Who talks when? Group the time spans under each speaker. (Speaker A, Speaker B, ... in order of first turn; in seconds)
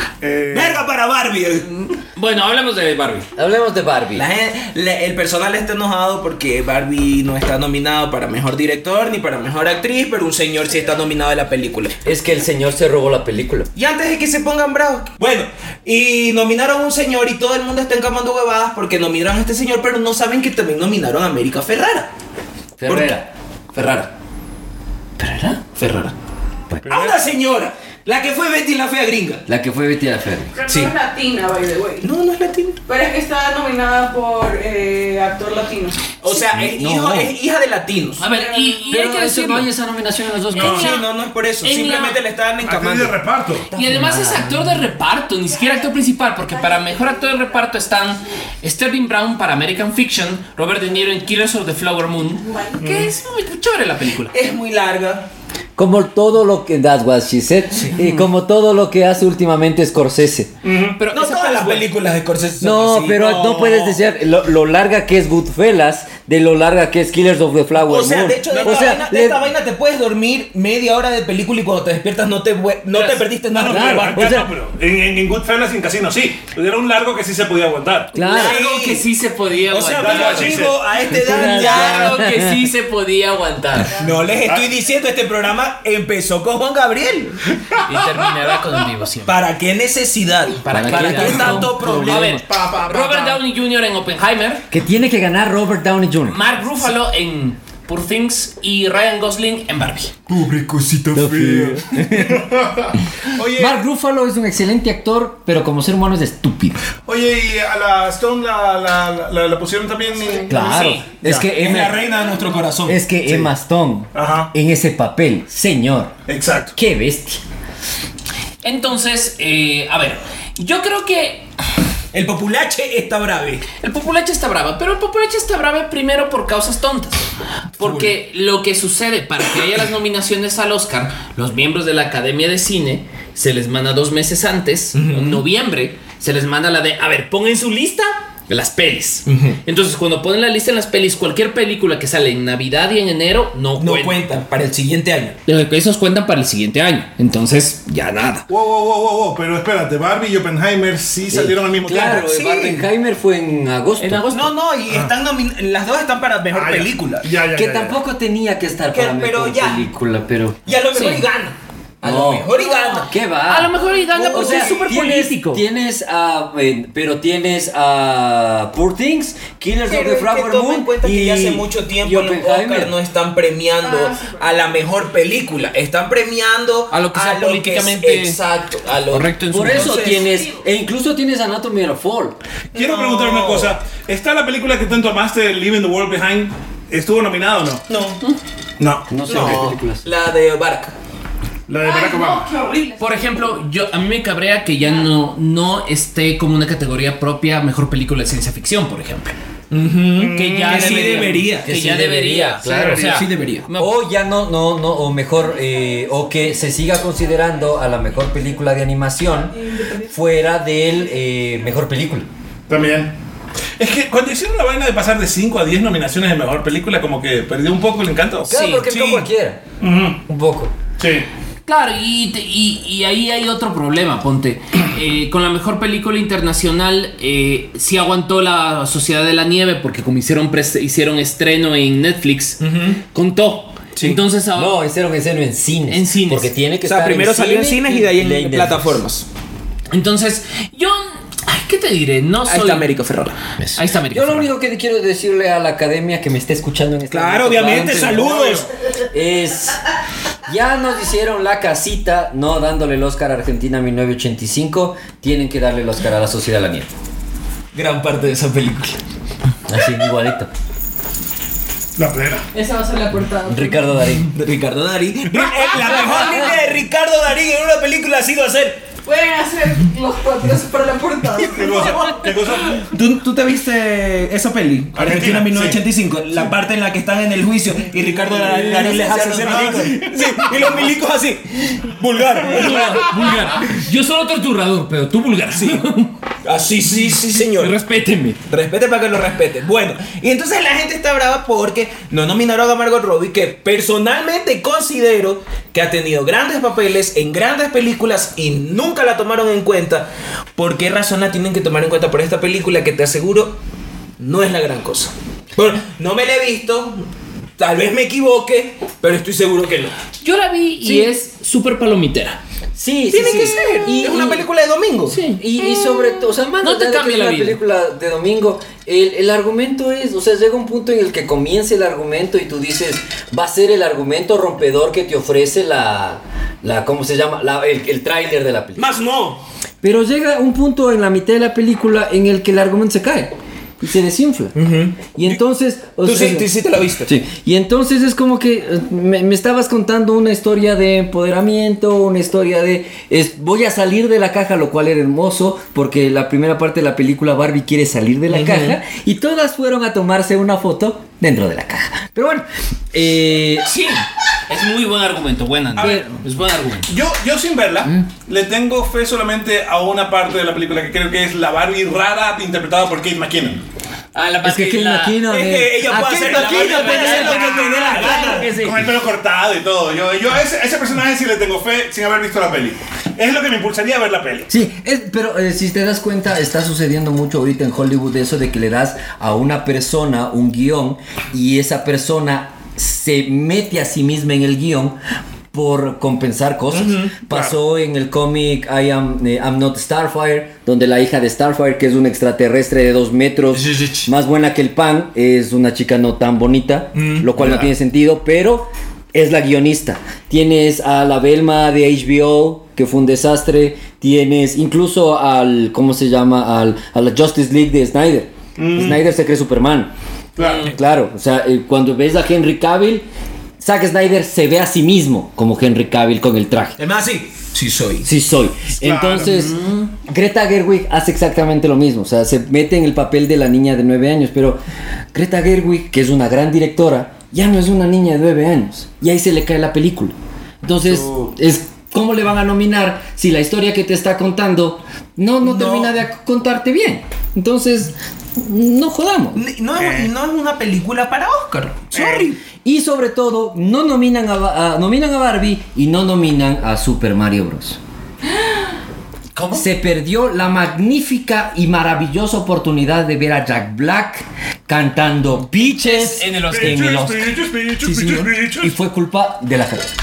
Speaker A: 0.2-0.8, 26.9-27.2, 40.6-40.9, 42.6-43.7, 52.8-53.1, 60.6-61.0, 63.4-63.7, 68.5-69.0, 73.0-78.1, 80.0-80.8, 87.6-88.3, 92.4-93.4, 101.1-103.8, 107.1-111.7, 114.1-114.5, 116.3-116.8, 148.5-152.3, 156.5-158.0, 182.7-187.9, 188.8-189.7, 191.7-192.5, 200.2-201.2, 212.7-213.1, 213.8-218.6, 219.8-220.2, 221.0-221.3, 262.0-262.5, 271.4-272.9, 274.9-275.8, 278.6-280.4, 355.8-356.0, 356.9-363.6, 367.1-374.5, 408.6-409.0, 410.4-410.7, 418.8-419.5, 439.8-440.1, 441.9-442.3, 456.5-458.7
Speaker B: 0.5-1.9, 4.2-12.0, 13.8-22.1, 22.9-23.1, 23.7-24.1, 26.8-29.5, 30.7-30.9, 32.0-32.8, 36.2-38.2, 40.5-43.2, 43.7-44.0, 54.3-55.3, 61.1-63.6, 67.9-74.5, 78.3-79.0, 79.7-82.2, 84.0-87.4, 89.3-92.4, 111.5-113.1, 122.1-123.6, 134.9-135.4, 139.3-139.6, 143.8-145.4, 151.9-152.8, 154.3-157.3, 158.9-159.8, 160.7-163.1, 164.1-164.9, 169.8-180.3, 182.7-183.8, 187.9-188.2, 189.3-190.9, 199.7-201.7, 203.1-203.7, 218.9-219.3, 232.6-233.0, 236.8-239.3, 242.5-243.4, 247.1-248.7, 257.7-259.0, 264.3-268.8, 272.7-283.4, 285.5-285.8, 286.4-287.8, 288.5-303.6, 304.2-307.0, 307.6-309.9, 313.1-315.2, 328.8-329.4, 334.6-335.4, 336.0-337.1, 348.3-348.8, 365.3-368.5, 386.7-387.2, 393.6-394.1, 397.0-397.3, 416.8-418.1, 435.4-436.0, 439.3-442.4
Speaker C: 2.1-3.3, 25.4-26.1, 38.2-39.7, 40.5-41.0, 41.6-42.2, 43.7-54.4, 57.9-58.2, 61.0-61.9, 78.2-80.7, 81.2-84.0, 87.8-89.4, 90.6-94.7, 96.3-100.2, 110.5-111.1, 118.6-121.5, 123.8-144.2, 145.5-148.5, 154.0-154.5, 160.9-161.2, 163.5-165.6, 176.9-178.4, 179.1-180.4, 193.0-199.4, 200.3-204.0, 218.5-218.9, 221.7-232.6, 233.1-234.8, 235.9-236.5, 239.9-242.9, 243.7-244.5, 282.5-286.1, 287.5-288.4, 310.2-312.4, 315.1-317.6, 353.6-356.9, 364.1-365.2, 365.9-368.9, 410.4-410.7, 419.2-419.9, 449.4-449.7, 455.4-457.0
Speaker D: 3.4-4.3, 12.0-13.7, 22.8-23.3, 25.2-25.6, 26.7-27.0, 29.5-30.5, 36.5-37.4, 38.9-41.0, 43.8-44.8, 55.8-60.5, 62.6-69.4, 73.7-74.5, 78.1-78.6, 81.1-82.6, 90.7-92.4, 94.7-96.4, 100.3-102.5, 103.5-106.8, 110.5-112.0, 112.9-116.2, 116.8-117.4, 151.3-154.3, 157.5-160.7, 162.0-162.5, 163.0-163.7, 164.3-172.9, 179.5-182.4, 189.1-190.1, 201.6-203.2, 203.8-212.3, 218.5-219.6, 220.3-220.7, 234.6-239.0, 243.6-249.8, 250.5-256.9, 259.7-260.5, 263.5-264.3, 278.5-279.0, 282.5-283.8, 310.8-311.1, 312.8-314.5, 315.4-328.9, 329.8-334.6, 335.1-336.5, 337.1-353.7, 355.8-356.1, 364.4-368.4, 374.5-385.0, 385.5-409.9, 410.5-413.1, 413.6-416.8, 418.0-424.6, 425.1-439.4, 442.6-447.8, 449.5-459.9
Speaker E: 30.6-32.1, 32.9-36.2, 38.3-39.0, 46.7-47.2, 110.3-110.7, 112.1-112.5, 162.7-163.0, 173.8-174.7, 191.8-193.1, 209.6-210.1, 262.5-263.8, 269.1-272.2